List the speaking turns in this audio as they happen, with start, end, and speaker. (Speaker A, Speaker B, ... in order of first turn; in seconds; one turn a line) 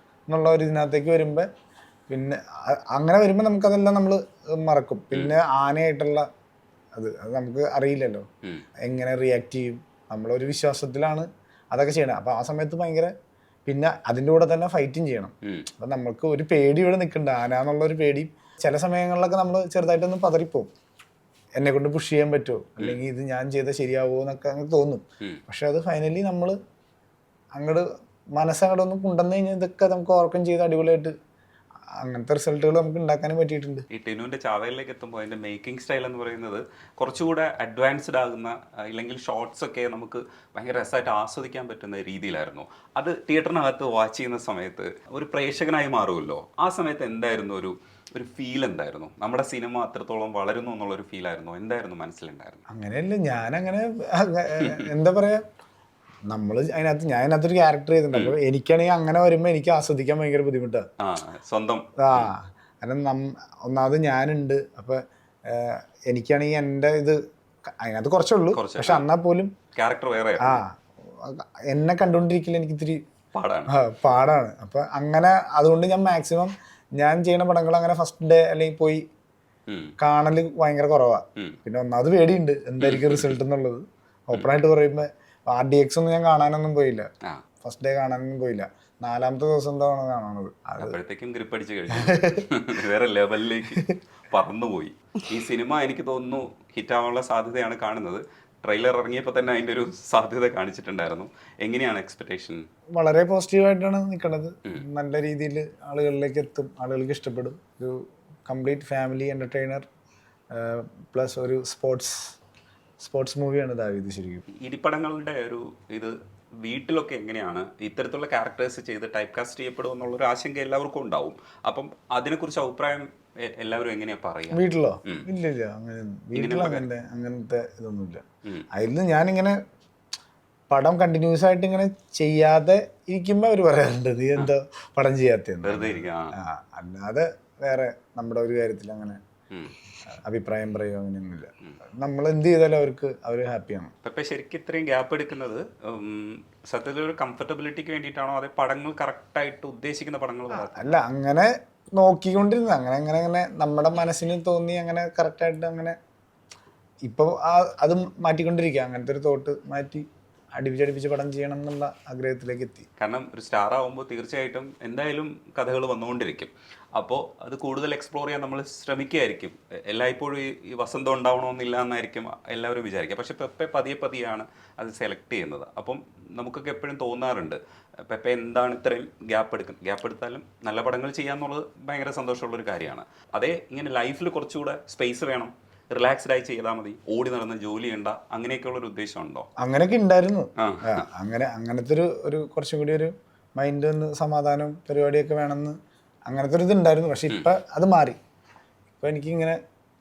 Speaker A: 0.3-1.5
Speaker A: 2.1-6.3
Speaker A: 7.0-8.2
Speaker A: 8.8-13.1
Speaker A: 13.7-20.7
Speaker B: 15.4-15.7
Speaker A: 21.6-26.6
Speaker A: 27.5-31.1
Speaker A: 32.0-33.8
Speaker B: 33.9-52.6
Speaker A: 52.7-55.4
Speaker B: 54.6-54.9
Speaker A: 56.3-60.9
Speaker B: 61.0-62.3
Speaker A: 62.0-69.5
Speaker B: 68.5-69.0
Speaker B: 69.7-70.6
Speaker A: 70.4-73.0
Speaker B: 73.3-73.7
Speaker A: 73.7-79.0
Speaker B: 79.7-79.9
Speaker A: 80.0-87.1
Speaker B: 82.8-83.3
Speaker A: 87.6-91.0
Speaker B: 90.8-102.6
Speaker A: 92.0-92.5
Speaker A: 103.0-109.8
Speaker A: 110.5-112.3
Speaker A: 113.0-114.4
Speaker B: 114.5-125.2
Speaker A: 124.5-129.6
Speaker B: 126.3-126.9
Speaker A: 130.7-139.2
Speaker B: 135.6-136.3
Speaker A: 140.1-143.9
Speaker B: 144.0-150.9
Speaker A: 150.5-156.0
Speaker A: 157.1-160.0
Speaker A: 160.6-162.9
Speaker B: 163.0-189.5
Speaker A: 189.6-198.2
Speaker B: 190.6-191.0
Speaker A: 199.0-199.6